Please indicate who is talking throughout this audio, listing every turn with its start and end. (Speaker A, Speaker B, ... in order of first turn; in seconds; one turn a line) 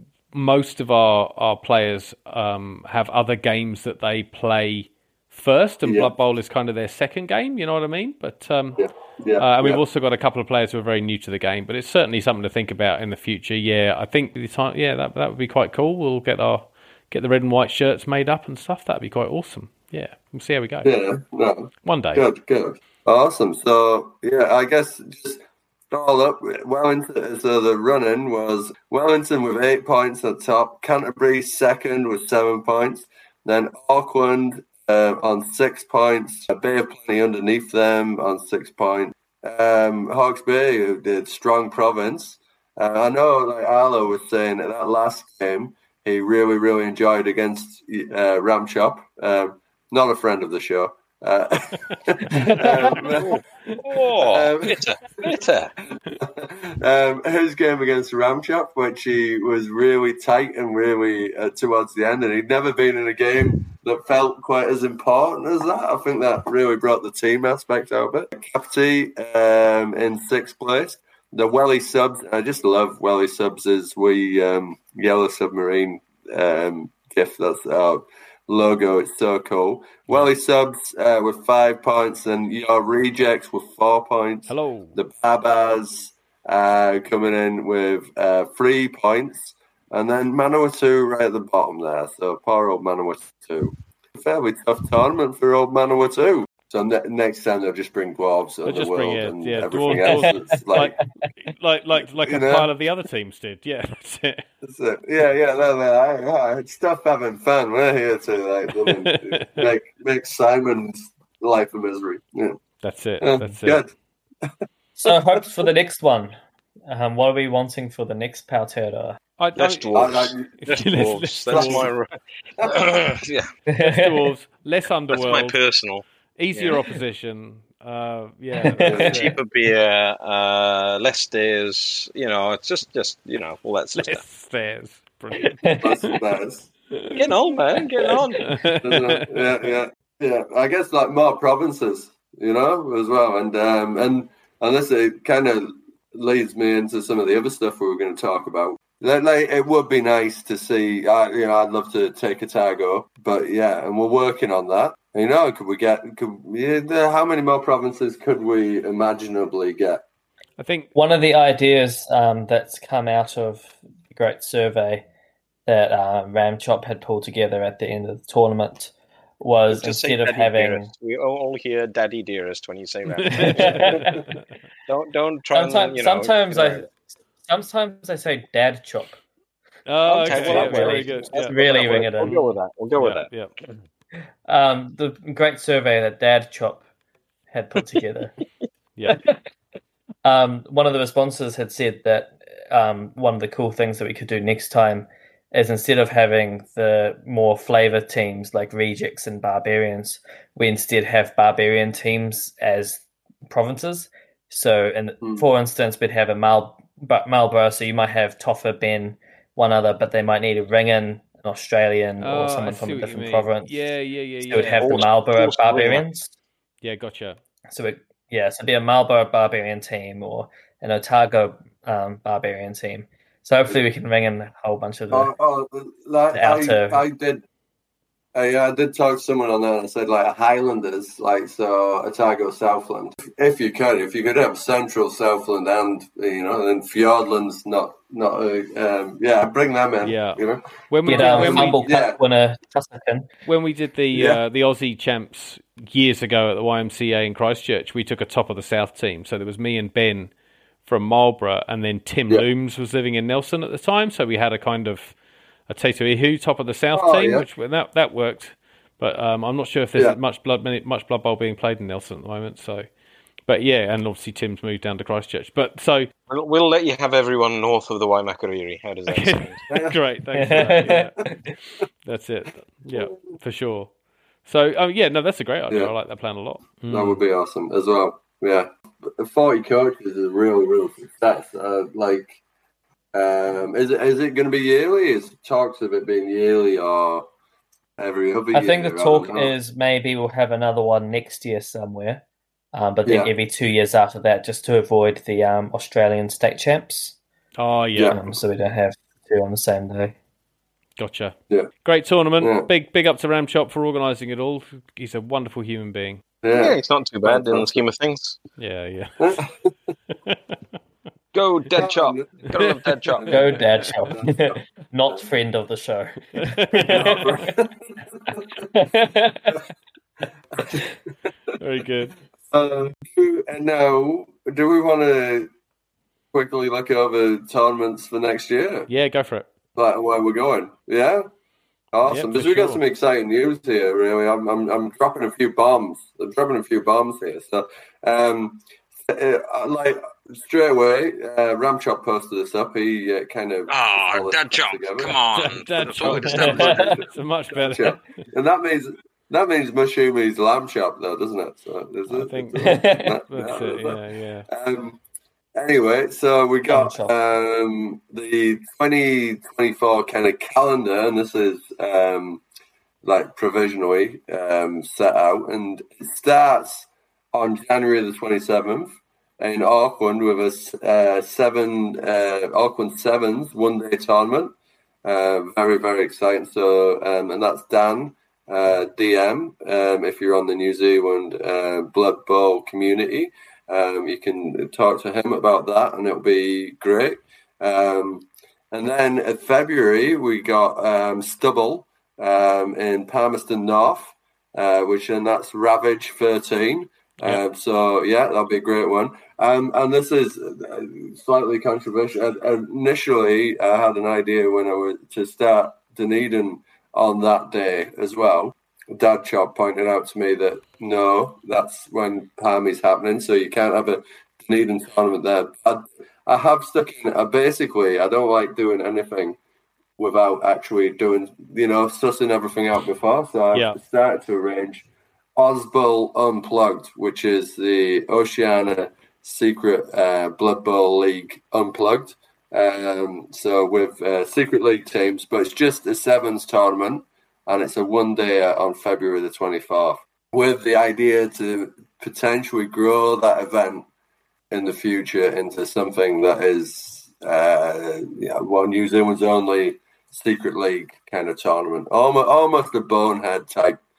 Speaker A: 0.3-8.9
Speaker B: 5.8-6.1
Speaker B: 8.8-9.8
Speaker A: 9.4-20.9
Speaker B: 20.8-53.4
Speaker A: 21.9-22.2
Speaker C: 52.3-52.7
Speaker D: 53.8-55.7
Speaker B: 54.2-101.0
Speaker A: 84.5-85.0
Speaker A: 98.7-100.9
Speaker A: 101.4-104.4
Speaker B: 102.2-102.7
Speaker B: 104.6-112.6
Speaker A: 108.9-109.7
Speaker A: 112.8-113.8
Speaker B: 113.2-115.2
Speaker C: 115.0-119.2
Speaker A: 119.4-121.9
Speaker D: 119.6-123.5
Speaker B: 119.9-120.5
Speaker B: 121.5-121.9
Speaker B: 122.6-122.8
Speaker C: 123.7-124.2
Speaker A: 123.8-125.6
Speaker D: 125.1-126.0
Speaker A: 126.4-129.4
Speaker C: 128.6-129.0
Speaker B: 128.8-129.2
Speaker D: 129.0-134.2
Speaker A: 133.9-135.6
Speaker C: 135.4-136.0
Speaker B: 135.8-136.7
Speaker A: 136.9-137.3
Speaker D: 137.1-138.5
Speaker C: 138.1-138.6
Speaker A: 138.4-139.7
Speaker B: 138.8-160.0
Speaker A: 160.6-160.9
Speaker C: 160.9-165.1
Speaker C: 165.7-170.9
Speaker D: 169.7-174.0
Speaker A: 173.1-174.2
Speaker C: 173.3-174.0
Speaker B: 174.0-174.2
Speaker D: 174.9-176.9
Speaker C: 175.5-179.2
Speaker A: 179.9-183.5
Speaker D: 180.1-183.3
Speaker C: 180.3-182.4
Speaker C: 184.5-186.8
Speaker C: 187.5-188.4
Speaker C: 189.1-189.4
Speaker C: 190.2-213.8
Speaker A: 212.2-215.1
Speaker C: 214.4-216.3
Speaker D: 214.8-216.1
Speaker A: 216.8-217.4
Speaker C: 217.7-225.3
Speaker B: 225.1-227.4
Speaker C: 226.3-227.0
Speaker B: 228.3-242.2
Speaker A: 240.0-241.8
Speaker C: 241.1-243.3
Speaker A: 243.5-250.3
Speaker B: 244.1-244.4
Speaker A: 250.8-255.2
Speaker A: 255.7-262.9
Speaker B: 256.9-257.5
Speaker A: 263.5-266.1
Speaker D: 266.3-269.6
Speaker A: 269.1-271.2
Speaker B: 269.7-270.0
Speaker C: 270.4-271.0
Speaker A: 272.1-273.9
Speaker A: 274.4-277.2
Speaker B: 276.9-282.4
Speaker B: 283.1-287.2
Speaker B: 288.0-289.5
Speaker C: 288.5-297.2
Speaker B: 293.1-293.3
Speaker A: 297.6-298.2
Speaker B: 298.0-298.3
Speaker C: 298.1-300.2
Speaker A: 301.0-306.2
Speaker B: 302.4-302.7
Speaker B: 306.4-307.7
Speaker D: 306.5-308.4
Speaker A: 308.6-309.4
Speaker B: 309.2-309.5
Speaker A: 310.1-310.4
Speaker D: 311.3-313.3
Speaker B: 311.8-312.5
Speaker A: 312.5-314.0
Speaker B: 313.2-313.5
Speaker C: 313.3-317.4
Speaker B: 314.0-315.3
Speaker A: 316.4-317.3
Speaker B: 316.9-318.7
Speaker C: 318.7-319.6
Speaker A: 321.6-322.1
Speaker B: 322.5-325.5
Speaker B: 326.3-328.9
Speaker A: 328.9-329.5
Speaker B: 329.8-331.3
Speaker B: 331.9-345.2
Speaker A: 332.1-332.8
Speaker D: 343.7-346.8
Speaker A: 345.4-348.2
Speaker B: 345.9-355.0
Speaker C: 346.5-347.0
Speaker A: 352.1-354.5
Speaker C: 352.6-353.2
Speaker B: 355.6-362.4
Speaker C: 356.7-357.1
Speaker B: 363.0-419.4
Speaker B: 420.0-424.9
Speaker B: 425.4-443.9
Speaker B: 444.5-453.8